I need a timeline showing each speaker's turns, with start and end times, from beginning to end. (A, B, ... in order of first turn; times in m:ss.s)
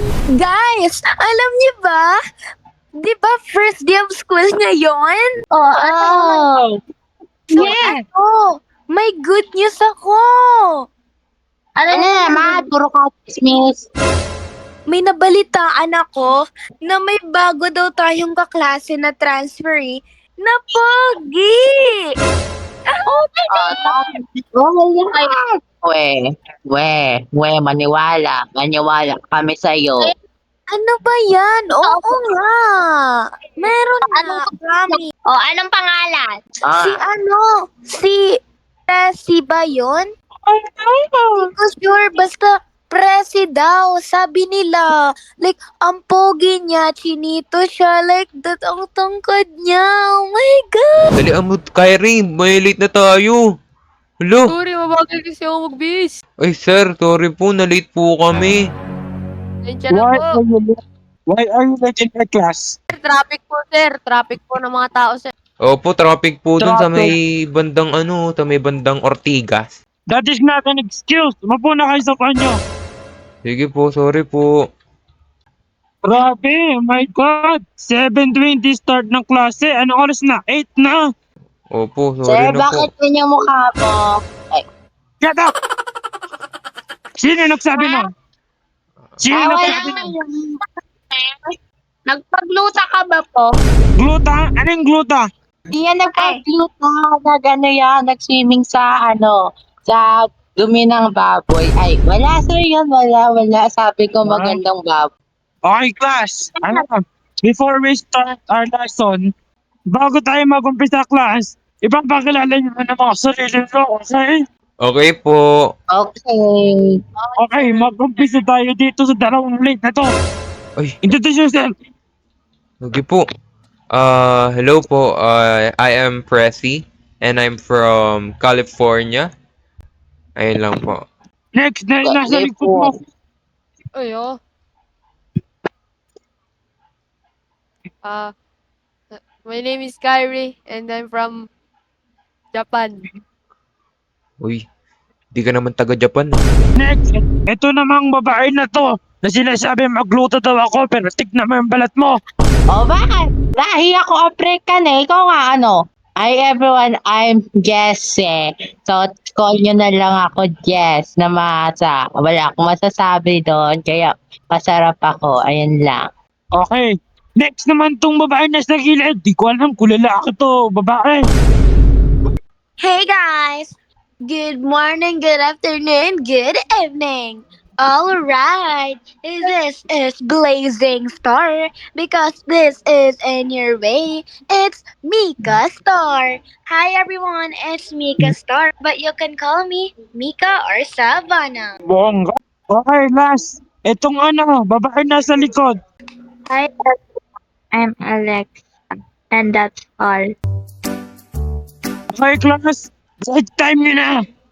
0:00.3-0:02.2 A
0:03.0-0:06.6 A
0:05.5-0:06.5 B
0:07.5-0:10.8 A
0:07.6-0:07.9 B
0:07.6-0:08.0 C
0:11.8-0:12.7 B
0:11.9-0:13.8 C
0:14.9-0:22.0 A
0:22.9-0:24.1 A
0:23.5-0:30.1 C
0:30.7-0:35.1 A
0:31.8-0:32.3 B
0:34.1-0:36.3 B
0:36.6-0:37.0 C
0:36.8-0:40.1 A
0:40.5-0:41.1 D
0:41.3-0:51.1 A
0:51.2-0:53.4 E
0:54.2-0:54.5 E
0:54.5-0:56.2 F
0:56.4-0:58.6 E
0:59.6-1:00.4 F
0:59.9-1:00.7 D
1:01.3-1:02.8 D
1:02.9-1:05.3 F
1:05.6-1:09.7 E
1:06.6-1:07.1 D
1:10.1-1:12.6 D
1:13.4-1:14.5 E
1:16.0-1:21.0 D
1:21.7-1:22.9 E
1:22.2-1:24.6 C
1:25.2-1:25.5 D
1:27.2-1:28.1 D
1:29.2-1:30.1 D
1:29.3-1:30.0 C
1:29.4-1:30.3 B
1:32.1-1:33.5 B
1:34.0-1:35.2 D
1:35.9-1:36.4 B
1:36.1-1:45.1 C
1:44.2-1:44.6 D
1:45.6-1:49.3 D
1:49.9-1:54.4 D
1:54.8-1:55.4 E
1:55.9-1:57.0 C
1:57.2-1:57.9 F
1:57.4-2:00.1 D
2:01.0-2:01.7 D
2:02.8-2:03.2 E
2:03.9-2:09.3 E
2:10.4-2:11.0 E
2:11.5-2:12.9 D
2:12.0-2:12.9 C
2:13.9-2:14.4 F
2:19.1-2:21.4 F
2:22.5-2:23.1 F
2:25.3-2:26.4 E
2:26.8-2:32.2 D
2:32.7-2:46.1 C
2:46.5-2:51.2 D
2:52.8-3:11.7 A
3:11.8-3:15.8 D
3:16.5-3:16.9 B
3:17.7-3:18.6 B
3:19.3-3:20.2 B
3:22.1-3:24.1 D